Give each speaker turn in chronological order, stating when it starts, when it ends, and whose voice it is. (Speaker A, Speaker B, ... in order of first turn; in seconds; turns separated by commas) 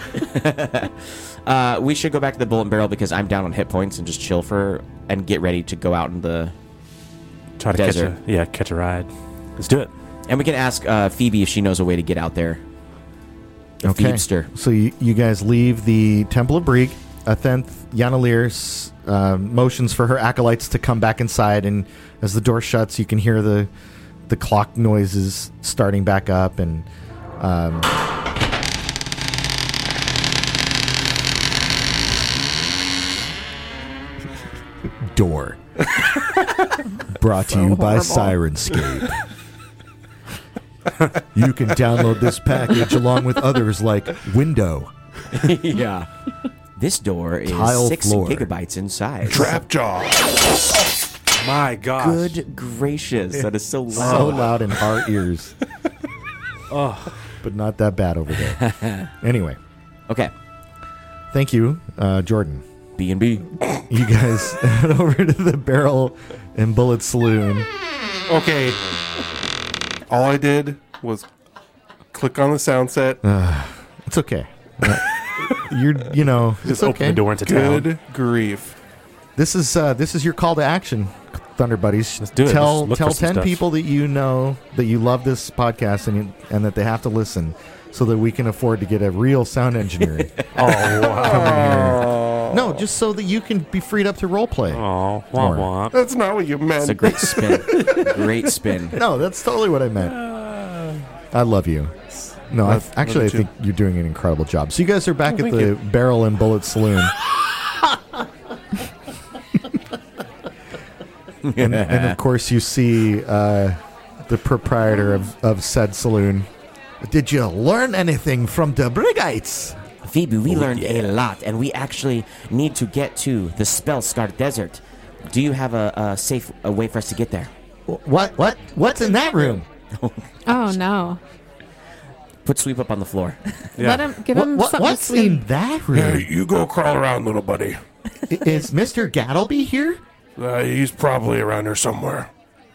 Speaker A: 0.1-6.5, Speaker B: 7.6-9.9, Speaker A: 7.7-8.1, Speaker A: 10.3-12.6, Speaker A: 13.8-14.5, Speaker C: 13.8-23.7, Speaker C: 24.3-26.9, Speaker C: 27.4-27.9, Speaker C: 35.0-35.6, Speaker C: 37.1-39.2, Speaker D: 37.6-38.3, Speaker C: 41.3-44.9, Speaker A: 45.3-46.1, Speaker A: 46.8-49.5, Speaker C: 47.5-48.5, Speaker E: 49.3-50.5, Speaker B: 51.4-52.4, Speaker A: 52.0-54.5, Speaker C: 53.9-55.5, Speaker B: 56.7-57.1, Speaker C: 57.4-58.6, Speaker A: 58.6-59.1, Speaker C: 59.1-59.6, Speaker C: 61.3-62.6, Speaker A: 63.0-63.5, Speaker C: 63.9-67.7, Speaker F: 68.3-68.8, Speaker F: 70.1-71.3, Speaker F: 72.1-73.2, Speaker C: 73.2-77.2, Speaker B: 76.6-77.9, Speaker F: 77.4-78.8, Speaker C: 79.4-95.7, Speaker B: 82.2-83.6, Speaker B: 90.5-92.0, Speaker F: 91.0-92.4, Speaker B: 94.7-96.0, Speaker F: 95.9-98.3, Speaker A: 96.8-99.0, Speaker C: 98.9-100.3, Speaker B: 100.3-100.9, Speaker C: 101.3-101.9, Speaker C: 102.5-107.1, Speaker F: 102.6-103.5, Speaker F: 105.4-105.7, Speaker A: 111.4-112.2, Speaker C: 111.6-116.5, Speaker C: 117.0-119.8, Speaker A: 120.0-127.5, Speaker B: 120.5-121.1, Speaker C: 127.9-129.7, Speaker A: 129.9-130.6, Speaker D: 130.5-131.2, Speaker A: 132.4-133.8, Speaker B: 133.8-134.1, Speaker D: 133.8-135.4, Speaker C: 134.3-136.3, Speaker E: 135.9-137.8, Speaker C: 138.3-140.0, Speaker E: 140.4-142.3